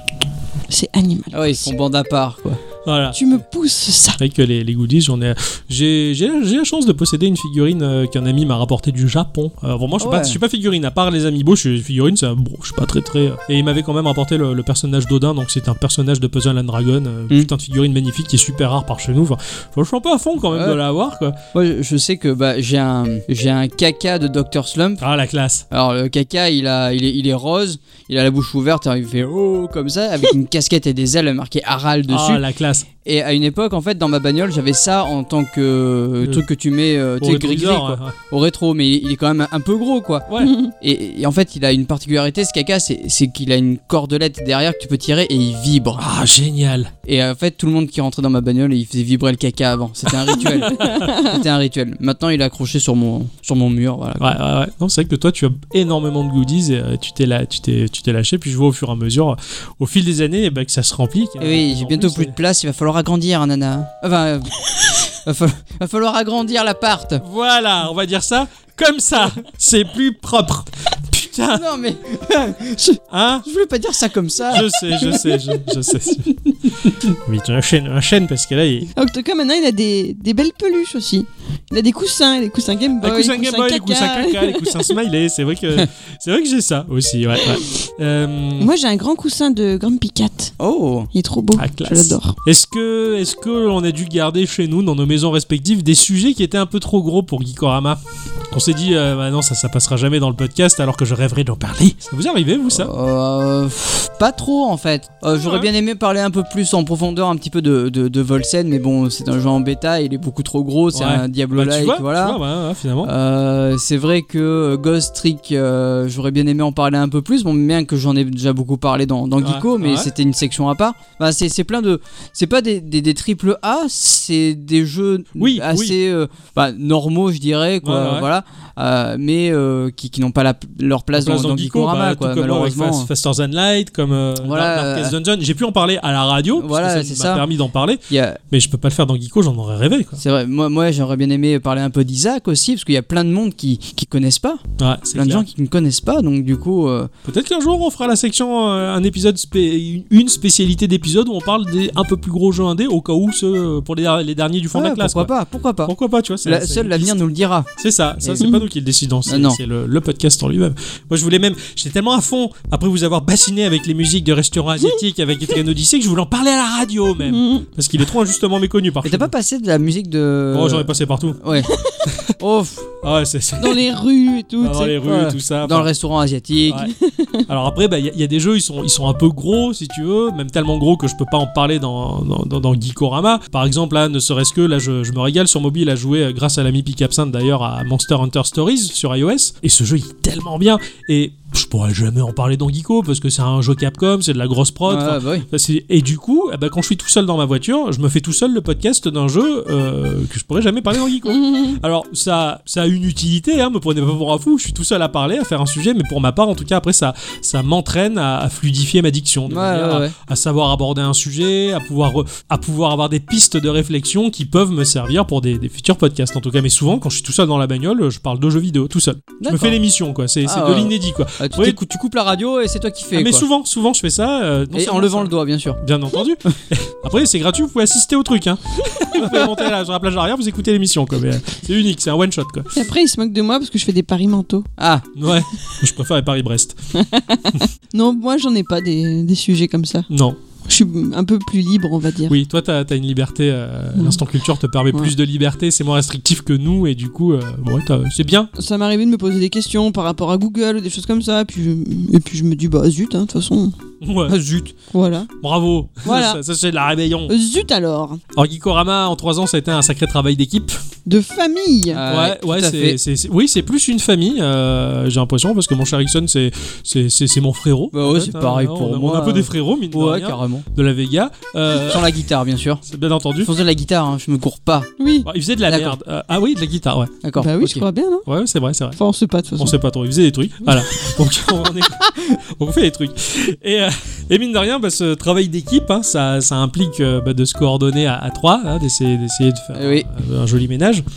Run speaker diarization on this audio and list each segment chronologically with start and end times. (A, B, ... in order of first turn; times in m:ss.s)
0:00.7-0:01.7 A
0:01.3-0:02.6 B
0:02.8-0:03.4 C
0:03.1-0:04.2 A
0:04.2-0:21.4 C
0:10.0-0:10.4 B
0:20.5-0:20.8 B
0:21.5-0:25.0 B
0:25.0-0:25.6 C
0:25.7-0:32.4 B
0:32.1-0:32.9 C
0:33.0-0:46.0 B
0:37.2-0:38.1 C
0:40.3-0:40.5 C
0:40.4-0:40.7 A
0:46.0-0:46.9 C
0:47.0-0:54.4 B
0:50.5-0:51.1 C
0:50.9-0:51.2 A
0:54.2-1:02.4 C
1:01.4-1:07.2 B
1:07.2-1:11.6 C
1:11.5-1:15.6 B
1:13.1-1:13.4 C
1:14.5-1:18.9 C
1:18.9-1:24.8 A
1:23.0-1:28.7 C
1:28.6-1:30.5 A
1:30.6-1:31.1 B
1:31.1-1:32.4 A
1:31.6-1:42.9 C
1:42.7-1:52.4 B
1:45.4-1:45.7 C
1:50.9-1:53.1 C
1:53.0-2:13.1 B
1:59.4-2:00.1 C
2:05.4-2:06.0 C
2:07.8-2:08.3 C
2:11.1-2:20.2 C
2:14.4-2:15.1 B
2:16.6-2:17.4 B
2:18.1-2:18.4 B
2:20.2-2:24.6 B
2:24.8-2:25.4 C
2:25.1-2:27.1 B
2:27.2-2:35.3 C
2:34.7-2:37.7 B
2:35.8-2:37.2 C
2:37.8-2:49.3 C
2:39.3-2:39.6 B
2:47.2-2:47.6 A
2:49.0-2:51.7 B
2:50.5-2:51.4 C
2:51.7-2:52.0 A
2:52.1-2:52.3 C
2:52.4-2:52.9 B
2:53.0-2:53.9 C
2:53.6-2:55.0 A
2:54.6-2:55.9 C
2:55.0-2:56.9 B
2:56.7-2:56.9 C
2:56.9-2:57.4 A
2:57.5-3:41.8 C
3:14.8-3:15.4 B
3:21.3-3:21.8 A
3:29.5-3:30.1 B
3:39.4-3:39.8 B
3:40.4-3:43.4 B
3:43.1-3:52.7 C
3:44.7-3:45.8 B
3:52.7-3:54.7 A
3:54.8-3:55.1 B
3:55.2-3:56.8 C
3:56.9-4:00.1 A
4:00.1-4:00.4 C
4:00.6-4:02.4 A
4:02.3-4:08.5 C
4:08.6-4:13.7 A
4:14.0-4:14.4 C
4:14.3-4:14.7 B
4:14.9-4:15.3 A
4:15.4-4:17.3 C
4:16.0-4:16.4 A
4:17.3-4:18.2 A
4:18.3-4:20.8 C
4:21.0-4:22.0 A
4:21.9-4:23.0 B
4:22.1-4:32.1 C
4:27.9-4:30.6 B
4:31.7-4:32.8 B
4:32.8-4:33.5 C
4:33.4-4:34.9 B
4:35.0-4:35.3 A
4:35.2-4:37.1 C
4:35.7-4:36.0 B
4:37.2-4:37.8 B
4:37.4-4:38.2 A
4:38.2-4:39.0 C
4:39.0-4:39.7 A
4:39.6-4:51.0 C
4:49.7-4:50.0 B